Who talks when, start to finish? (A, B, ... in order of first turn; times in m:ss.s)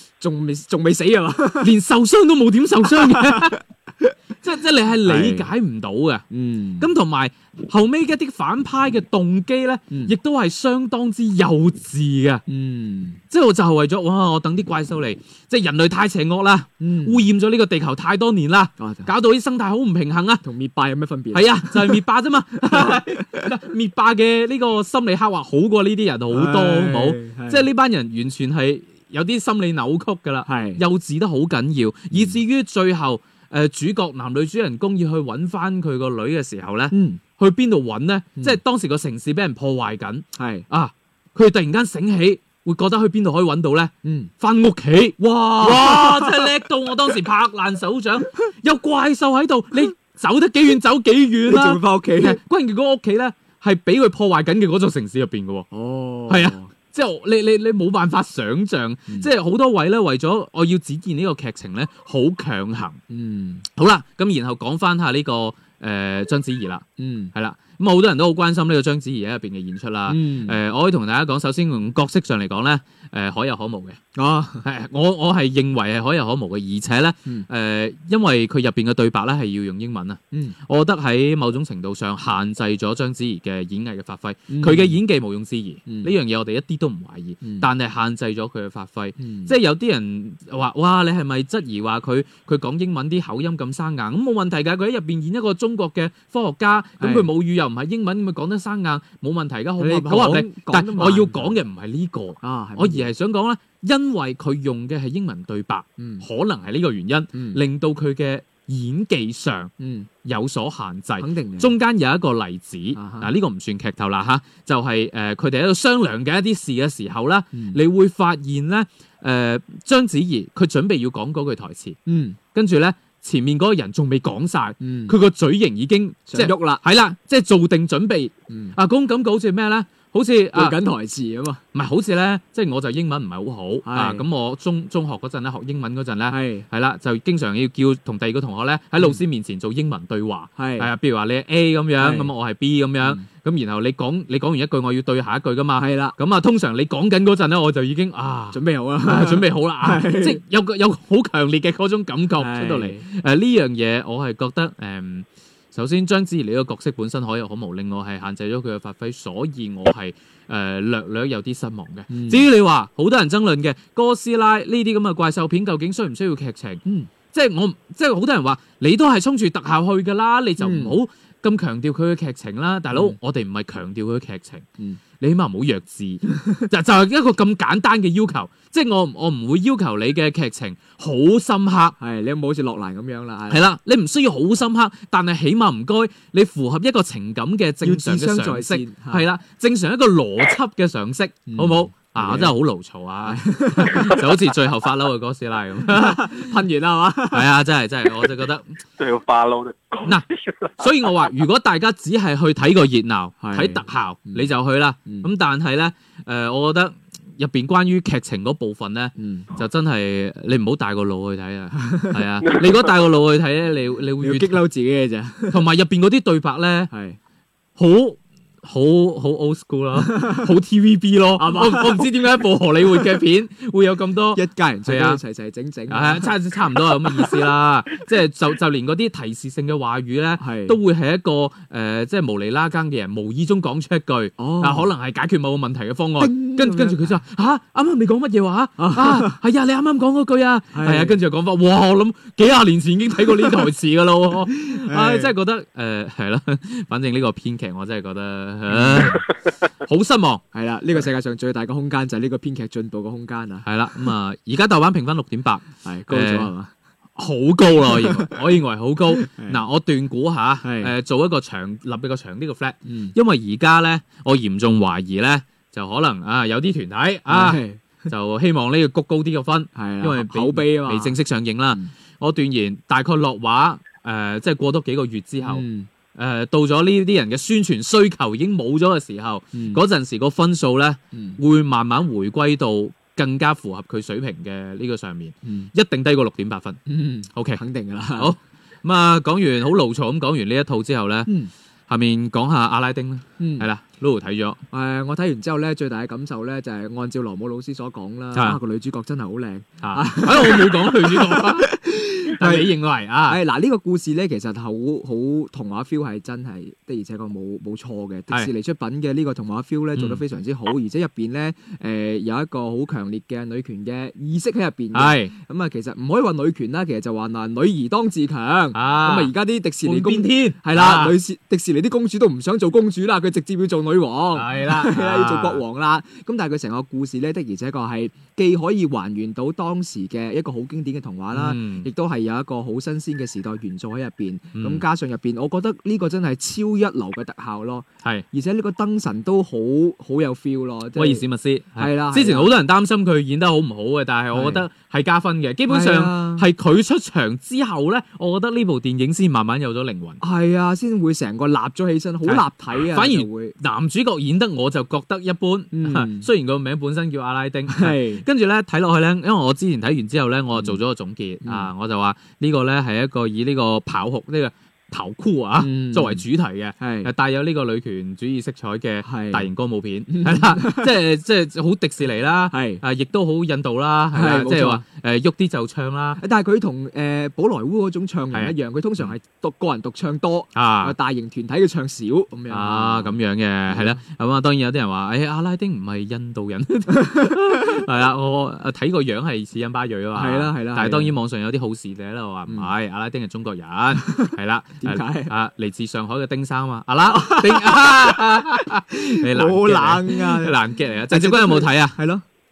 0:00.2-0:01.7 A
0:01.6-0:03.6 B
0:02.8-0:04.1 A
0:04.4-0:06.2 B
0:05.0-0:05.5 A
0:06.3-0:06.9 A
0:06.8-0:12.4 B
0:09.9-0:10.1 A
0:12.5-0:13.2 A
0:13.3-0:20.4 B
0:16.8-0:17.2 A
0:18.8-0:19.1 A
0:20.4-0:22.0 A
0:21.3-0:55.7 B
0:22.6-0:23.5 A
0:26.3-0:27.6 A
0:30.4-0:30.8 A
0:32.1-0:32.4 A
0:36.9-0:37.2 A
0:40.4-0:40.6 A
0:44.0-0:44.3 A
0:45.2-0:46.5 A
0:51.4-0:52.4 A
0:55.7-0:56.7 A
0:56.3-1:03.0 B
1:03.1-1:03.6 A
1:03.8-1:14.0 B
1:07.0-1:07.3 A
1:10.1-1:10.6 A
1:14.2-1:14.6 A
1:14.6-1:49.7 B
1:20.3-1:20.6 A
1:24.5-1:25.0 A
1:25.9-1:26.1 A
1:27.4-1:27.7 A
1:29.2-1:29.5 A
1:37.0-1:37.3 A
1:39.8-1:41.5 A
1:42.4-1:43.1 A
1:46.0-1:46.2 A
1:47.3-1:47.6 A
1:49.8-1:50.1 A
1:50.2-2:02.0 B
1:51.2-1:51.7 A
1:53.0-1:53.3 A
1:57.5-1:57.8 A
2:02.0-2:02.4 A
2:02.5-2:10.8 B
2:04.8-2:05.1 A
2:06.3-2:06.8 A
2:08.5-2:08.8 A
2:10.5-2:11.6 A
2:11.7-2:54.6 B
2:13.8-2:14.2 A
2:16.3-2:16.7 A
2:20.6-2:20.9 A
2:22.0-2:22.3 A
2:25.8-2:26.1 A
2:28.5-2:30.4 A
2:32.4-2:33.0 A
2:42.1-2:42.4 A
2:50.6-2:51.0 A
2:52.9-2:53.2 A
2:55.2-3:02.0 B
3:02.0-3:03.6 A
3:03.5-3:16.5 B
3:07.8-3:09.2 A
3:11.5-3:12.5 A
3:13.2-3:14.2 A
3:15.8-3:17.5 A
3:17.3-3:18.8 B
3:19.0-3:21.3 C
3:20.8-3:34.6 B
3:23.4-3:24.5 A
3:29.2-3:29.5 A
3:31.8-3:32.2 A
3:34.2-3:35.6 A
3:35.5-3:36.9 B
3:36.9-3:37.2 A
3:37.8-3:45.2 B
3:40.0-3:40.4 A
3:41.4-3:42.1 A
3:44.3-3:47.4 A
3:45.9-4:10.4 B
3:50.4-3:50.8 A
3:54.4-3:54.9 A
3:56.2-3:57.2 A
3:58.8-3:59.4 A
4:00.7-4:01.2 A
4:03.3-4:03.7 A
4:04.7-4:05.3 A
4:08.7-4:09.2 A
4:10.5-4:14.1 A
4:13.6-4:16.5 B
4:15.8-4:16.7 A
4:17.2-4:46.8 B
4:17.9-4:18.3 A
4:19.1-4:19.6 A
4:20.6-4:20.9 A
4:22.8-4:23.1 A
4:27.3-4:28.0 A
4:29.7-4:31.2 A
4:35.4-4:35.9 A
4:39.5-4:39.8 A
4:41.1-4:41.4 A
4:45.4-4:45.7 A
4:46.9-4:48.3 A
4:47.3-4:47.6 B
4:48.1-4:51.3 B
4:51.9-4:54.6 B
4:53.4-4:53.7 A
4:54.7-5:02.7 A
4:59.8-5:03.4 B
5:03.2-5:41.2 A
5:09.9-5:10.2 B
5:14.9-5:15.3 B
5:18.7-5:19.3 B
5:19.8-5:21.2 B
5:24.3-5:25.6 B
5:31.3-5:31.9 B
5:34.5-5:34.8 B
5:40.9-5:50.2 B
5:41.8-5:42.5 A
5:44.3-5:44.6 A
5:45.7-5:46.4 A
5:50.2-5:53.5 A
5:52.2-6:16.2 B
5:55.7-5:56.3 A
5:57.7-5:58.2 A
6:01.4-6:01.7 A
6:05.6-6:06.2 A
6:06.8-6:07.1 A
6:09.0-6:09.5 A
6:10.1-6:10.9 A
6:12.5-6:12.8 A
6:14.1-6:14.8 A
6:16.2-6:23.2 A
6:18.3-6:19.1 B
6:20.5-6:20.9 B
6:22.5-6:42.0 B
6:23.7-6:24.0 A
6:27.0-6:27.7 A
6:30.1-6:31.1 A
6:34.0-6:35.3 A
6:37.1-6:42.2 A